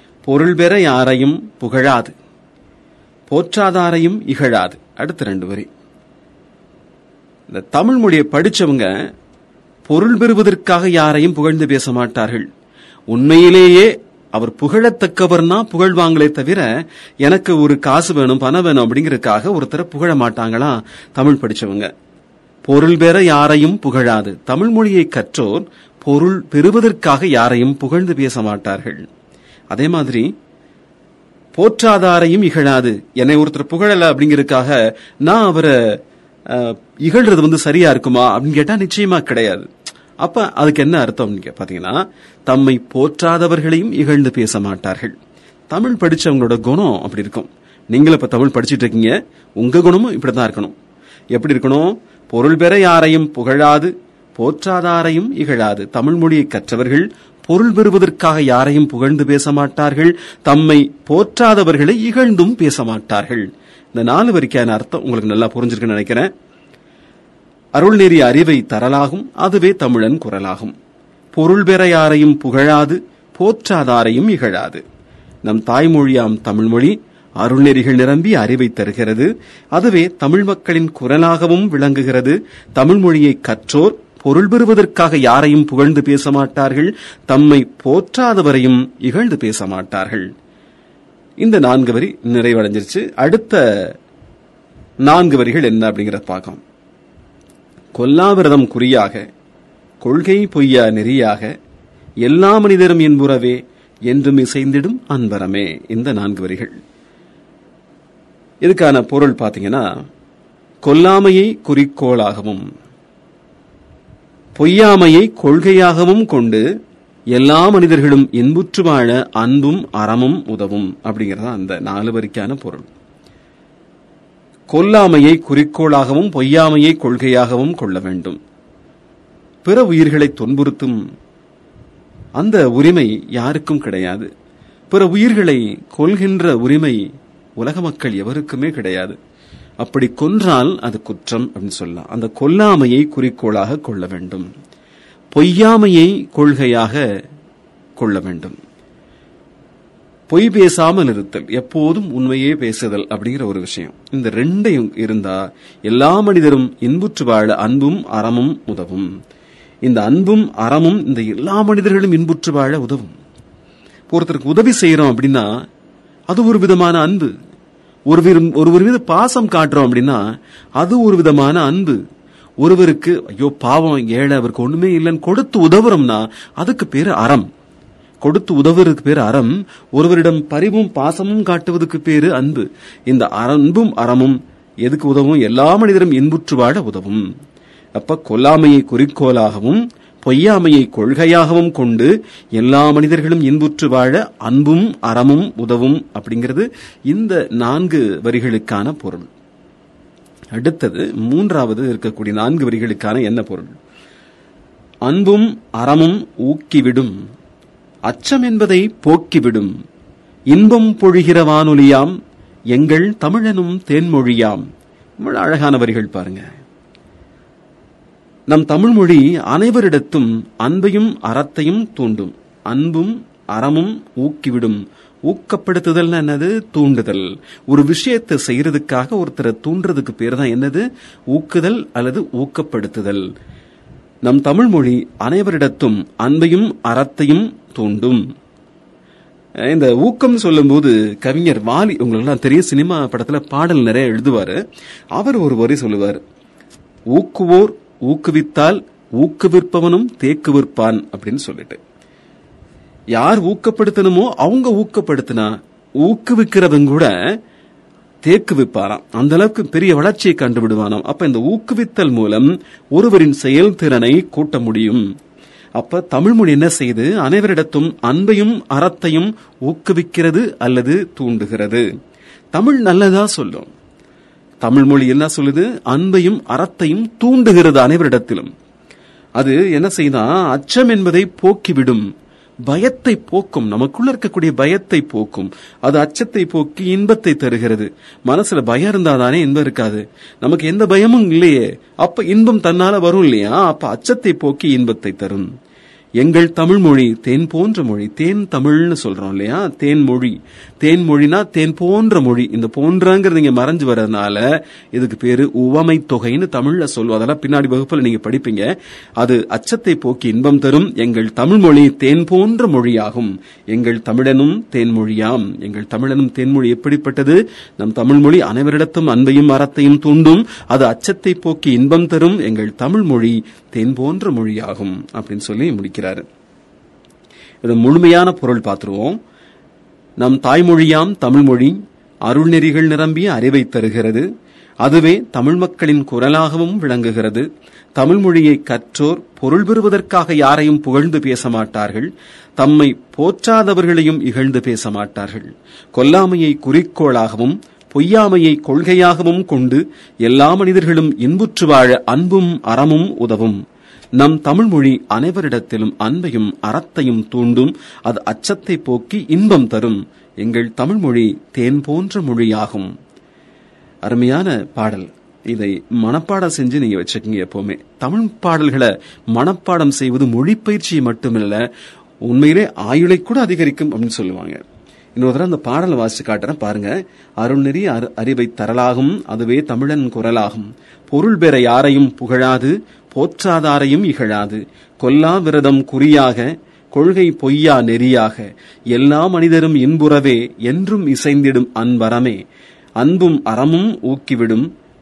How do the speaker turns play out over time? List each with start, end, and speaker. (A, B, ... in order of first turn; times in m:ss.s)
0:00.2-0:02.1 A
0:03.3-0:05.7 A
0:07.5-0:08.9 A
0:09.8-0:12.4 A
0:13.1-0:16.7 A
0:17.2-0:21.9 A
0:22.6-0:29.0 A
0:29.7-0:30.3 A
0:31.5-0:35.7 A
0:36.5-0:39.7 A
0:40.2-0:45.1 A
0:45.7-0:50.7 A
0:51.3-1:06.3 A
1:07.7-1:10.7 A
1:11.3-1:14.8 A
1:15.4-1:30.3 A
1:31.4-1:33.9 A
1:35.0-1:36.6 A
1:37.9-1:39.2 A
1:40.0-1:41.5 A
1:42.2-1:46.8 A
1:48.6-1:49.8 A
1:50.8-1:52.6 A
1:54.6-1:56.6 A
1:57.3-2:02.9 A
2:04.7-2:08.4 A
2:09.6-2:11.0 A
2:12.4-2:14.3 A
2:14.9-2:17.0 A
2:17.6-2:19.2 A
2:19.8-2:24.5 A
2:25.3-2:27.0 A
2:28.0-2:28.6 A
2:30.3-2:39.1 A
2:39.8-2:43.1 A
2:44.1-2:45.5 A
2:46.3-2:47.3 A
2:48.1-2:50.2 A
2:50.8-2:52.0 A
2:52.6-2:57.5 A
2:58.2-3:07.2 A
3:08.0-3:19.3 A
3:20.6-3:23.8 A
3:25.0-3:27.1 A
3:28.1-3:29.7 A
3:30.5-3:32.1 A
3:32.7-3:34.6 A
3:35.2-3:36.4 A
3:38.5-3:53.2 A
3:54.2-3:58.2 A
3:59.6-4:04.6 A
4:05.1-4:06.2 A
4:07.1-4:11.8 A
4:13.1-4:17.1 A
4:18.2-4:25.0 A
4:25.8-4:31.8 A
4:32.5-4:33.7 A
4:34.6-4:38.5 A
4:39.4-4:42.0 A
4:42.7-4:55.5 A
4:56.2-5:08.6 A
5:09.2-5:26.2 A
5:27.6-5:29.2 A
5:30.2-5:34.2 A
5:34.8-5:53.6 A
5:54.2-6:02.9 A
6:04.0-6:11.6 A
6:12.2-6:14.6 A
6:15.2-6:32.4 A
6:33.0-6:34.7 A